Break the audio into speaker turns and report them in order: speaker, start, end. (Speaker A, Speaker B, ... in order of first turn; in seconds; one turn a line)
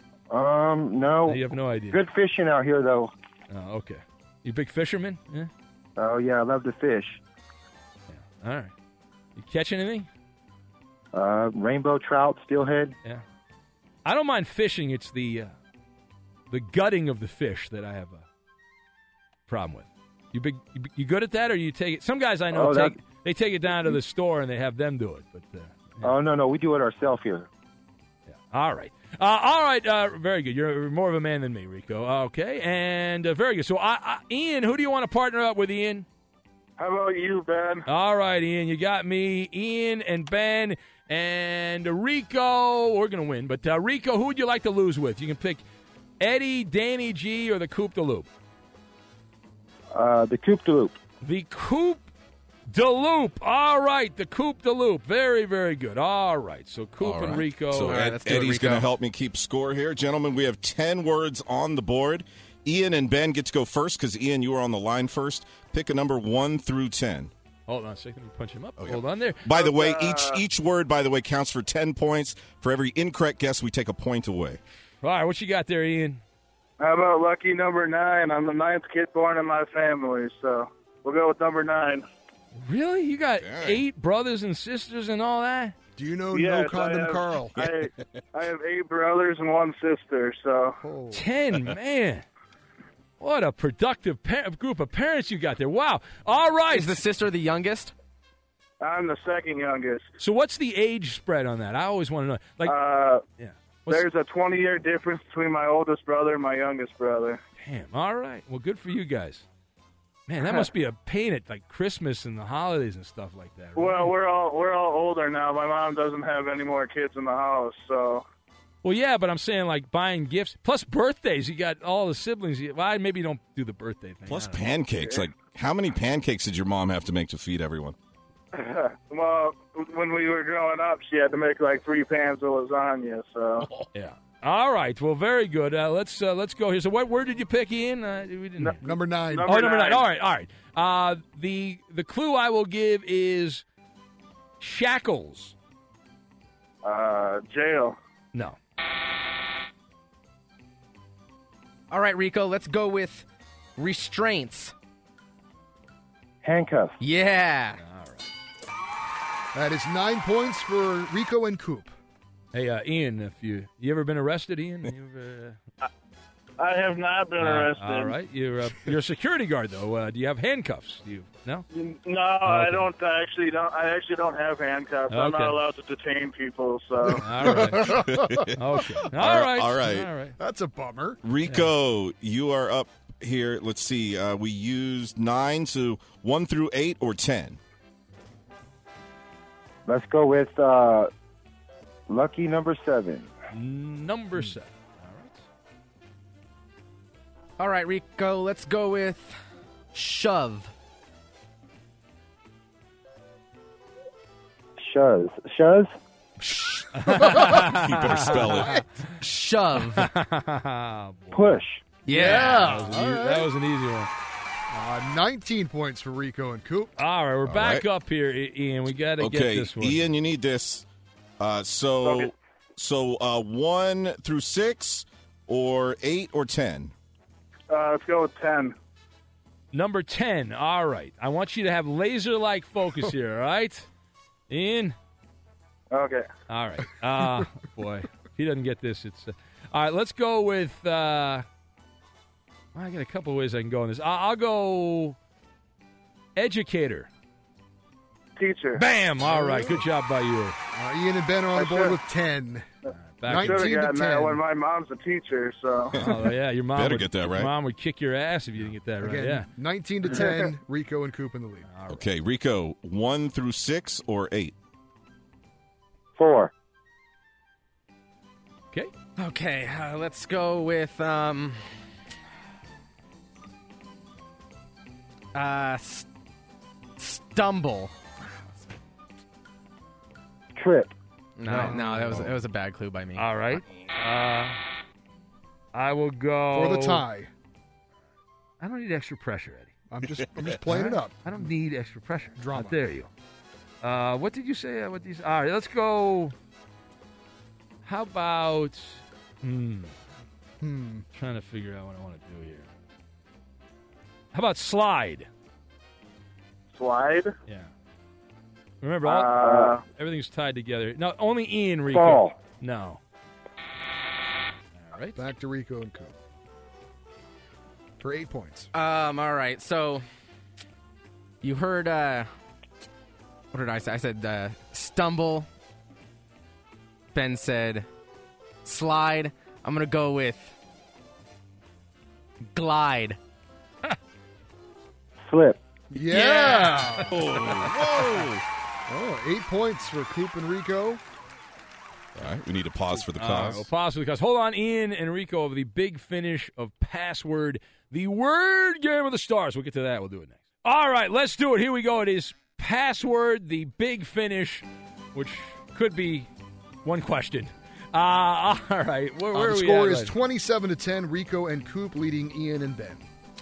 Speaker A: 0.3-3.1
Speaker B: 1.2-2.0
Speaker B: 3.5-5.5
Speaker A: 6.0-7.2
Speaker B: 8.1-8.7
Speaker B: 9.3-10.1
Speaker A: 11.1-12.9
Speaker B: 14.0-15.5
Speaker B: 16.5-18.2
Speaker B: 19.5-26.1
Speaker A: 22.5-22.9
Speaker A: 26.0-27.5
Speaker B: 28.3-36.0
Speaker C: 36.8-37.8
Speaker B: 37.9-45.6
Speaker B: 46.2-48.3
Speaker A: 49.9-51.0
Speaker B: 51.2-52.0
Speaker B: 52.7-58.1
Speaker D: 57.0-58.9
Speaker E: 57.7-67.3
Speaker B: 67.7-69.5
Speaker E: 68.8-74.6
Speaker C: 69.5-70.4
Speaker B: 75.0-76.2
Speaker C: 76.8-82.0
Speaker B: 82.5-85.7
Speaker E: 83.4-83.8
Speaker F: 86.0-87.6
Speaker C: 86.3-90.8
Speaker F: 90.8-91.2
Speaker B: 91.1-92.2
Speaker B: 93.2-97.0
Speaker D: 96.7-97.9
Speaker C: 98.8-100.0
Speaker B: 100.2-102.8
Speaker C: 102.6-103.2
Speaker B: 103.4-104.1
Speaker C: 103.9-107.4
Speaker B: 107.6-109.4
Speaker B: 110.3-114.1
Speaker C: 110.4-110.7
Speaker C: 113.8-118.2
Speaker B: 118.8-124.7
Speaker E: 124.3-127.9
Speaker C: 128.5-133.7
Speaker B: 133.9-138.8
Speaker F: 138.8-139.5
Speaker C: 139.3-140.0
Speaker B: 139.4-143.6
Speaker B: 144.6-145.5
Speaker C: 146.8-147.9
Speaker D: 151.9-153.2
Speaker D: 153.8-154.7
Speaker A: 156.4-157.0
Speaker D: 157.0-157.8
Speaker B: 157.8-158.3
Speaker F: 159.5-161.9
Speaker B: 162.5-165.6
Speaker C: 166.6-168.1
Speaker B: 167.4-171.7
Speaker C: 171.7-177.2
Speaker B: 172.4-172.9
Speaker B: 175.1-175.6
Speaker F: 177.0-179.1
Speaker B: 177.2-180.3
Speaker E: 178.0-178.5
Speaker E: 179.1-180.1
Speaker F: 180.4-181.2
Speaker E: 181.2-187.6
Speaker B: 181.4-181.7
Speaker A: 189.9-191.1
Speaker A: 192.1-193.3
Speaker B: 193.5-195.4
Speaker D: 197.6-199.3
Speaker D: 199.9-200.7
Speaker A: 204.8-205.9
Speaker F: 206.4-207.6
Speaker B: 206.9-209.1
Speaker E: 207.5-208.7
Speaker F: 208.2-208.8
Speaker D: 209.2-210.1
Speaker B: 209.8-211.6
Speaker A: 211.3-211.8
Speaker D: 212.1-212.7
Speaker F: 212.1-213.4
Speaker B: 212.2-214.1
Speaker F: 214.7-216.9
Speaker B: 217.0-220.1
Speaker E: 217.4-217.8
Speaker E: 219.2-220.8
Speaker E: 221.4-226.9
Speaker C: 227.7-228.7
Speaker B: 229.7-233.9
Speaker B: 234.5-234.9
Speaker C: 235.9-236.3
Speaker B: 236.5-241.4
Speaker B: 242.7-245.2
Speaker B: 246.3-247.1
Speaker C: 248.3-248.8
Speaker B: 248.7-250.6
Speaker F: 249.3-249.7
Speaker F: 250.7-252.6
Speaker C: 251.5-252.0
Speaker B: 252.9-253.7
Speaker F: 253.2-254.4
Speaker C: 253.3-255.9
Speaker E: 255.9-257.5
Speaker B: 255.9-259.5
Speaker F: 259.0-261.7
Speaker B: 261.7-262.1
Speaker E: 261.9-264.5
Speaker A: 266.2-266.5
Speaker D: 269.2-271.7
Speaker D: 275.3-276.1
Speaker D: 277.0-277.9
Speaker A: 280.6-280.9
Speaker D: 281.4-283.2
Speaker B: 281.4-282.3
Speaker F: 281.5-282.0
Speaker B: 283.1-284.6
Speaker B: 285.7-287.0
Speaker F: 286.5-287.3
Speaker B: 288.6-289.7
Speaker F: 289.9-291.5
Speaker B: 290.6-293.1
Speaker F: 292.4-292.8
Speaker B: 293.8-296.3
Speaker B: 297.8-299.9
Speaker F: 300.6-301.0
Speaker B: 301.1-302.7
Speaker B: 304.3-305.3
Speaker C: 306.7-307.3
Speaker B: 308.8-313.0
Speaker C: 309.0-309.8
Speaker A: 309.4-309.7
Speaker A: 311.9-312.3
Speaker B: 314.8-315.2
Speaker F: 315.1-316.1
Speaker F: 318.0-318.7
Speaker D: 318.7-320.1
Speaker D: 321.4-322.3
Speaker D: 323.5-325.5
Speaker D: 327.1-327.9
Speaker D: 328.6-330.5
Speaker D: 332.5-333.2
Speaker A: 335.2-335.6
Speaker F: 335.9-337.1
Speaker B: 336.1-338.3
Speaker E: 337.1-338.4
Speaker F: 338.9-341.0
Speaker E: 342.1-343.7
Speaker B: 343.0-356.3
Speaker B: 356.8-360.1
Speaker F: 359.3-363.0